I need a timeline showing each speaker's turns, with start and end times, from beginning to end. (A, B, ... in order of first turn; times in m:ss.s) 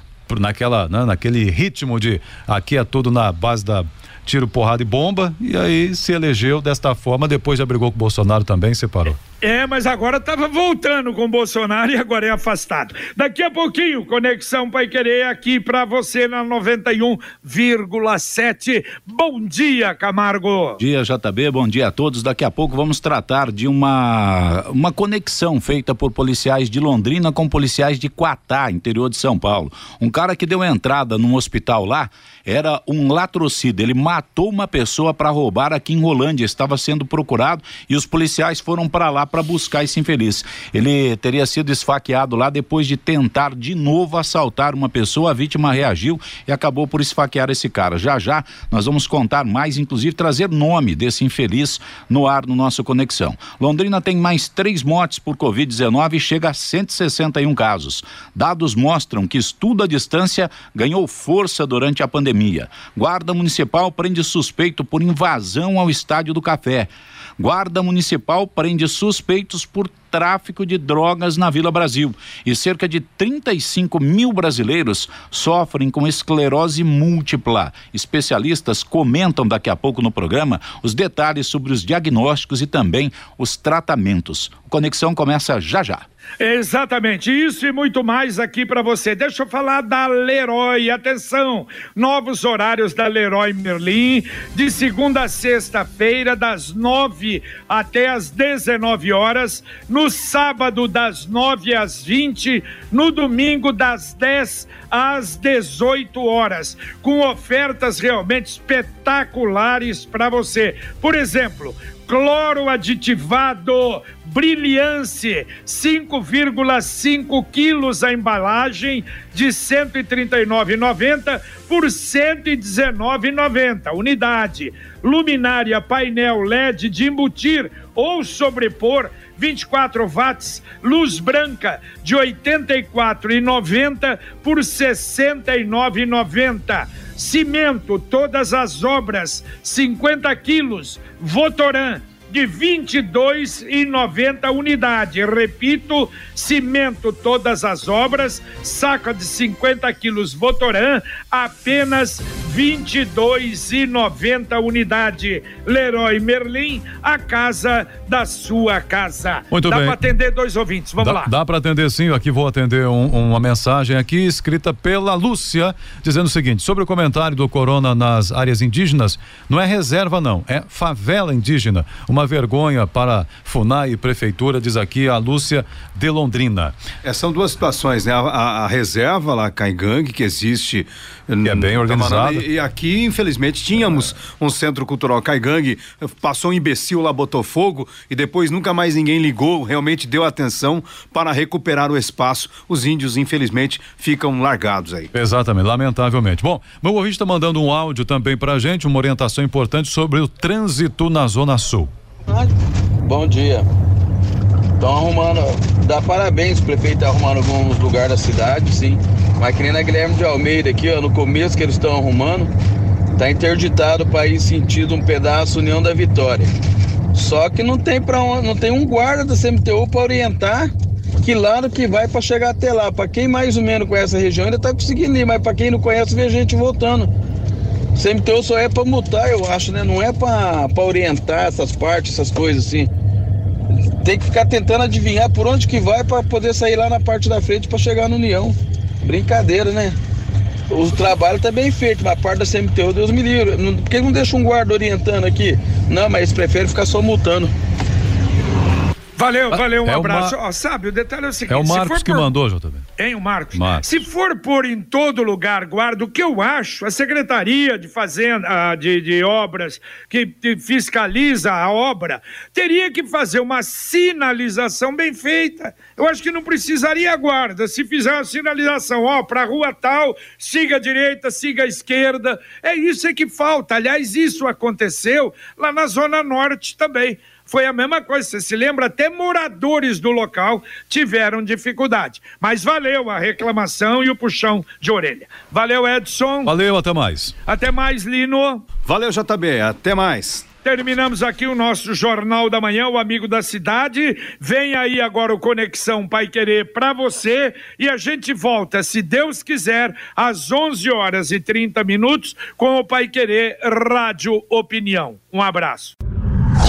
0:00.3-0:09.2 A
0:09.4-0:20.8 B
0:20.8-1:26.0 C
1:26.4-2:41.3 B
2:39.5-2:40.0 A
2:41.0-2:56.7 A
2:57.0-3:15.1 D
3:01.4-3:02.4 A
3:15.1-3:21.9 A
3:22.3-3:22.5 E
3:23.0-3:23.6 E
3:24.8-3:32.5 E
3:33.2-3:36.5 E
3:37.1-3:40.7 E
3:41.2-3:47.1 E
3:48.0-3:52.9 E
3:54.0-4:00.0 E
4:00.7-4:07.5 E
4:09.2-4:12.3 B
4:09.5-4:10.3 A
4:11.5-4:12.9 A
4:13.0-4:46.5 B
4:13.5-4:13.9 A
4:46.4-4:47.3 A
4:47.4-4:48.6 B
4:48.8-4:50.4 D
4:50.6-5:05.9 B